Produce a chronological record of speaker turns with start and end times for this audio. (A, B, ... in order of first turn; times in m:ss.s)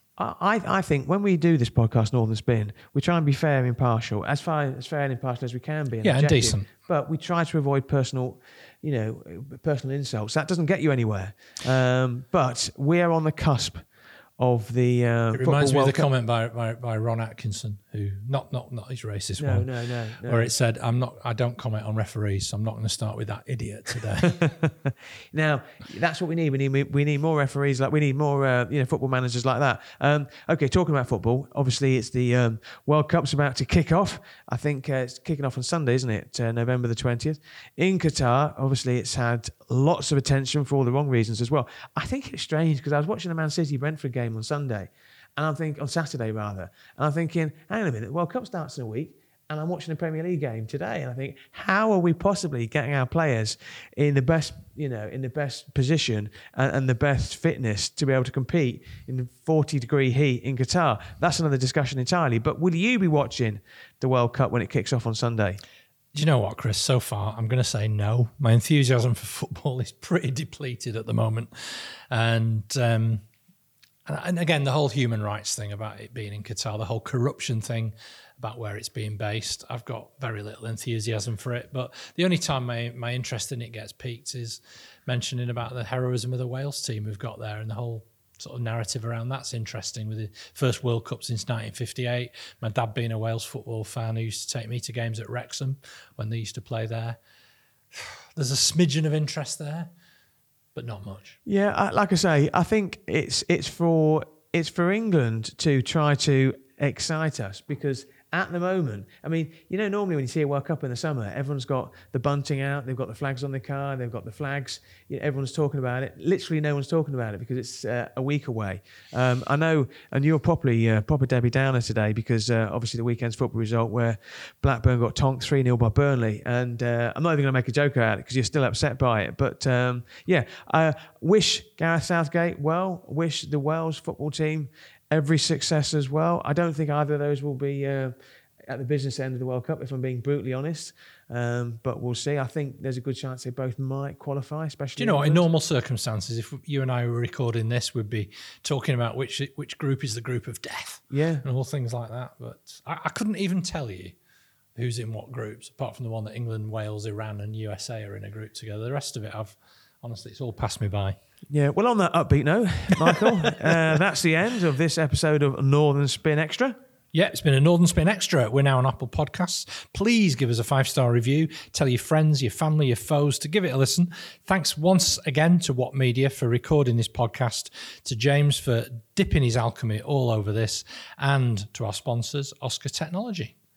0:00.2-0:13.8 A
0:06.0-0:06.7 B
0:14.4-0:16.1 A
0:15.4-0:19.7 B
0:19.4-0:20.5 A
0:20.2-0:24.4 B
0:24.2-1:05.6 A
1:06.1-1:13.2 B
1:14.1-1:37.2 B
1:37.9-1:39.9 B
1:40.8-1:41.4 B
1:41.5-2:18.1 A
2:18.7-2:25.5 A
2:25.0-2:34.2 B
2:31.1-2:31.4 A
2:34.8-2:41.2 B
2:41.5-2:46.8 A
2:43.0-2:43.8 B
2:47.1-3:03.5 B